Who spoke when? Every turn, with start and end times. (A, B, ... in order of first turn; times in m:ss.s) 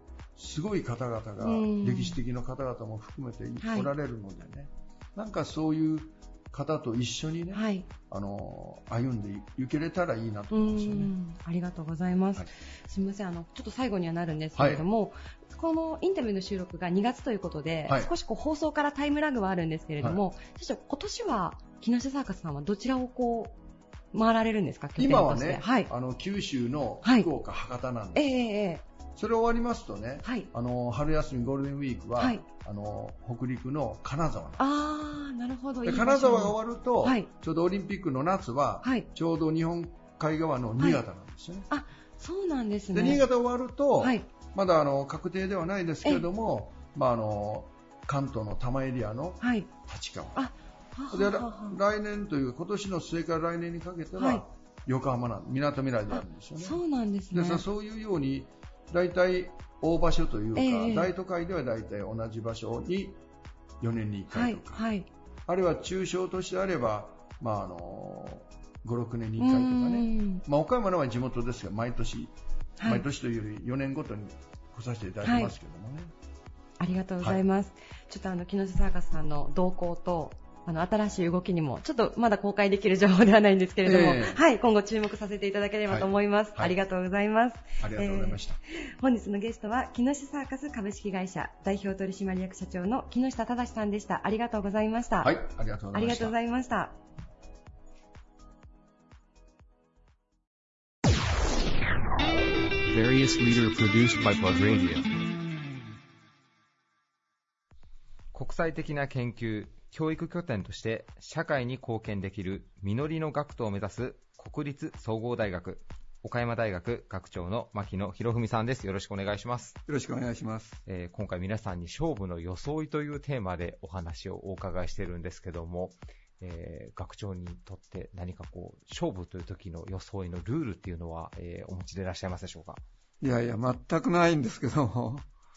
0:00.4-0:11.1 A
0:01.4-0:02.2 B
0:03.6-0:03.9 B
0:07.5-0:07.9 B
0:10.5-0:23.6 B
0:14.6-0:14.8 A
0:24.1-0:25.9 B
0:25.0-0:28.3 A
0:28.2-0:28.8 B
0:29.2-0:34.7 A
0:30.2-0:30.5 B
0:32.2-0:32.4 B
0:34.6-0:37.3 B
0:35.8-0:41.7 A
0:41.7-0:43.2 B
0:42.9-0:50.5 A
0:44.0-0:44.3 B
0:49.4-0:49.7 B
0:50.4-0:51.8 B
0:51.1-1:03.2 A
0:54.2-0:54.4 B
0:56.1-0:57.6 B
1:00.6-1:01.1 B
1:03.8-1:04.9 A
1:04.3-1:05.1 B
1:05.5-1:16.1 A
1:09.4-1:10.4 B
1:15.2-1:15.5 B
1:16.8-1:35.4 B
1:23.8-1:24.4 A
1:25.9-1:26.8 A
1:27.8-1:28.6 A
1:35.2-1:36.4 A
1:35.9-1:37.0 B
1:42.9-1:45.1 C
1:48.3-1:59.8 D
1:59.9-2:00.8 E
2:00.9-2:12.8 D
2:13.2-2:15.3 E